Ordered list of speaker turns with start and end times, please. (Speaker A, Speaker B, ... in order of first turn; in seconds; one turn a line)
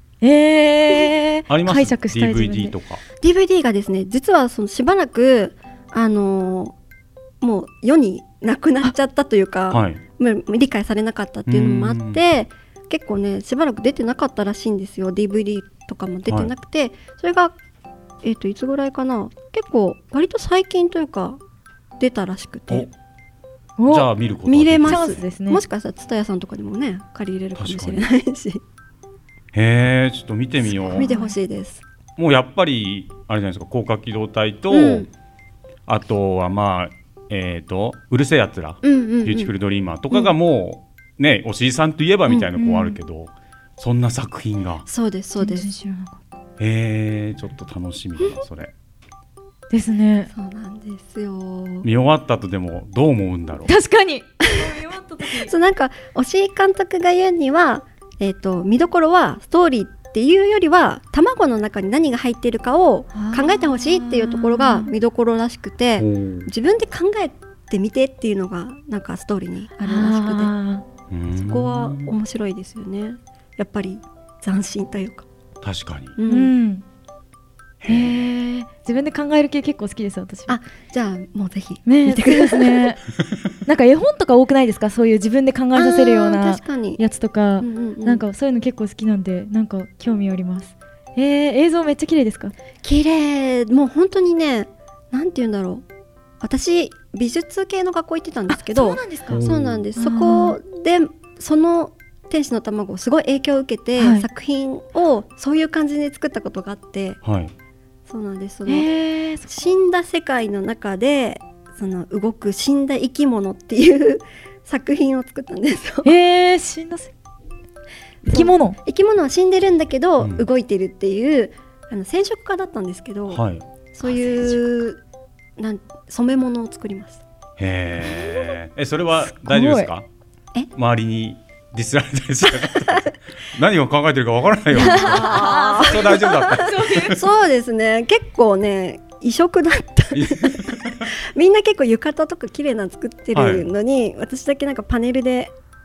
Speaker A: 0.2-2.8
Speaker B: 1.5-3.0
Speaker C: 3.2-6.8
Speaker C: 7.4-17.6
Speaker B: 9.7-10.0
Speaker B: 11.5-12.2
Speaker B: 16.3-16.5
Speaker C: 18.2-21.4
Speaker C: 22.0-22.9
Speaker A: 23.8-24.1
Speaker B: 23.9-25.2
Speaker C: 24.5-28.6
Speaker A: 24.9-25.6
Speaker B: 27.6-28.1
Speaker B: 29.5-31.1
Speaker C: 30.9-31.8
Speaker A: 31.0-31.4
Speaker B: 32.2-35.1
Speaker C: 34.7-35.1
Speaker B: 35.9-44.9
Speaker C: 38.8-39.5
Speaker A: 42.6-43.0
Speaker C: 44.9-45.7
Speaker A: 45.4-46.2
Speaker B: 46.6-48.7
Speaker A: 49.7-50.3
Speaker C: 50.3-51.9
Speaker B: 51.8-53.7
Speaker A: 53.7-55.5
Speaker C: 55.3-70.5
Speaker A: 63.1-64.9
Speaker B: 66.0-66.5
Speaker A: 69.8-70.8
Speaker B: 71.1-72.1
Speaker C: 71.3-75.2
Speaker B: 75.6-76.2
Speaker C: 76.2-76.5
Speaker A: 76.3-76.8
Speaker B: 77.8-78.2
Speaker A: 77.9-80.6
Speaker C: 80.5-83.0
Speaker A: 81.9-83.0
Speaker A: 83.7-92.5
Speaker C: 85.8-87.0
Speaker C: 87.6-88.2
Speaker C: 92.8-95.8
Speaker C: 96.4-107.2
Speaker A: 98.5-99.4
Speaker B: 99.3-99.8
Speaker A: 100.0-100.6
Speaker A: 104.0-104.3
Speaker B: 107.2-107.5
Speaker C: 108.1-108.9
Speaker A: 108.7-109.7
Speaker C: 109.5-116.1
Speaker A: 116.0-117.1
Speaker C: 118.2-123.4
Speaker A: 118.3-118.8
Speaker B: 120.2-120.5
Speaker B: 123.3-123.7
Speaker C: 123.9-125.0
Speaker A: 124.2-124.5
Speaker C: 125.6-127.2
Speaker B: 127.6-130.1
Speaker A: 129.3-129.9
Speaker B: 130.7-137.2
Speaker A: 134.8-137.2
Speaker C: 134.8-145.5
Speaker B: 140.1-141.0
Speaker B: 143.3-143.7